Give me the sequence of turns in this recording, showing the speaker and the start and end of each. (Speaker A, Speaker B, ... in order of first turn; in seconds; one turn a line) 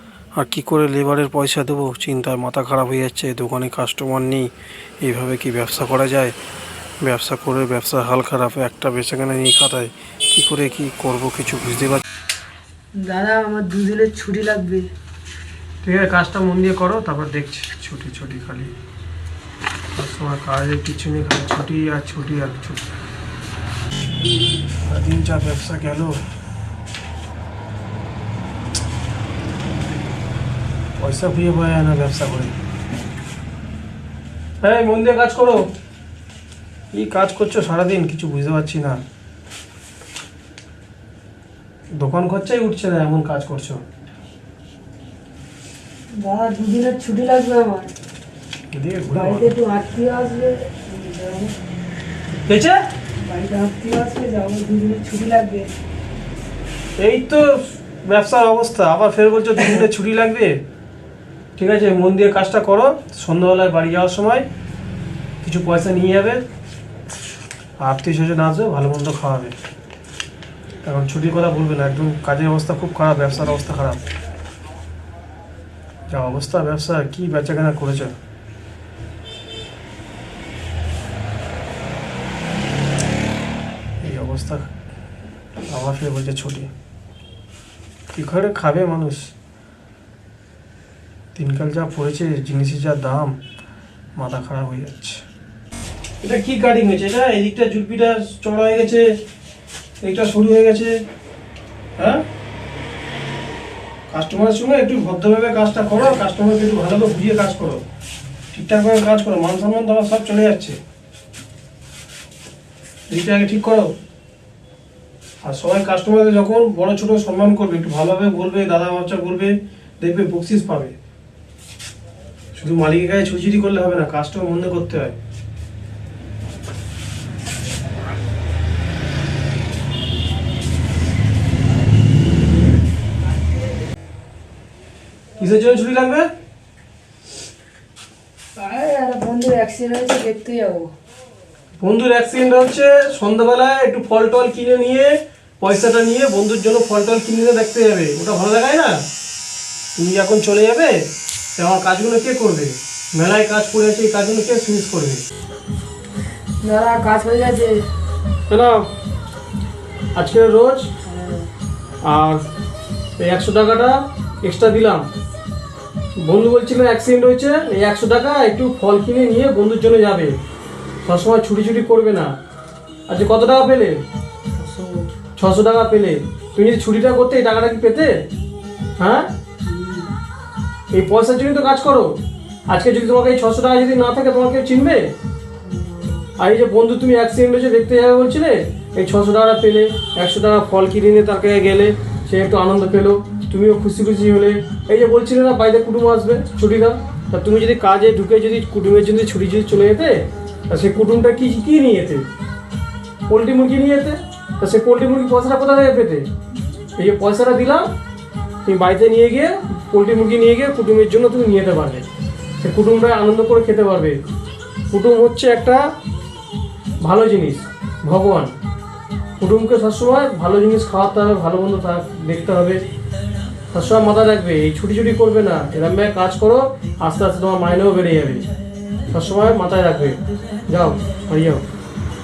Speaker A: 0.4-4.5
Speaker A: 5.0-6.3
Speaker A: 7.0-12.0
Speaker B: 13.0-14.9
Speaker A: 15.8-18.7
Speaker A: 19.9-22.9
Speaker A: 24.9-26.2
Speaker A: 31.0-32.5
Speaker A: 34.6-35.6
Speaker A: 36.9-39.0
Speaker A: 42.0-43.8
Speaker B: 46.2-47.9
Speaker A: 48.7-49.5
Speaker B: 49.1-51.5
Speaker A: 52.5-52.8
Speaker B: 53.2-55.7
Speaker A: 57.0-60.6
Speaker A: 61.6-64.5
Speaker A: 65.4-66.4
Speaker A: 67.8-69.5
Speaker A: 70.8-74.0
Speaker A: 76.1-78.2
Speaker A: 84.0-84.7
Speaker A: 85.7-86.7
Speaker A: 88.1-89.3
Speaker A: 91.3-93.4
Speaker A: 94.2-95.2
Speaker A: 96.2-99.1
Speaker A: 100.0-101.0
Speaker A: 102.0-102.2
Speaker A: 104.1-107.8
Speaker A: 108.5-110.8
Speaker A: 113.1-113.9
Speaker A: 115.4-120.9
Speaker A: 122.6-125.2
Speaker A: 135.4-136.3
Speaker B: 138.6-140.9
Speaker A: 141.8-149.0
Speaker A: 150.0-151.0
Speaker A: 151.6-155.2
Speaker B: 156.6-157.8
Speaker A: 158.5-158.9
Speaker A: 160.2-160.9
Speaker B: 161.1-161.5
Speaker A: 162.0-162.4
Speaker A: 163.2-165.1
Speaker A: 166.2-170.3
Speaker A: 171.1-172.3
Speaker A: 173.1-174.0
Speaker B: 174.6-175.1
Speaker A: 175.4-178.1
Speaker A: 179.0-179.3
Speaker B: 179.6-180.1
Speaker A: 180.9-182.1
Speaker A: 182.7-185.1
Speaker B: 185.7-186.3
Speaker A: 186.4-202.3
Speaker A: 203.3-206.3
Speaker A: 207.0-207.9
Speaker A: 208.7-212.1
Speaker A: 212.6-214.2
Speaker A: 214.9-215.9
Speaker A: 217.0-218.5
Speaker A: 219.4-222.8
Speaker A: 223.7-228.5
Speaker A: 229.1-231.6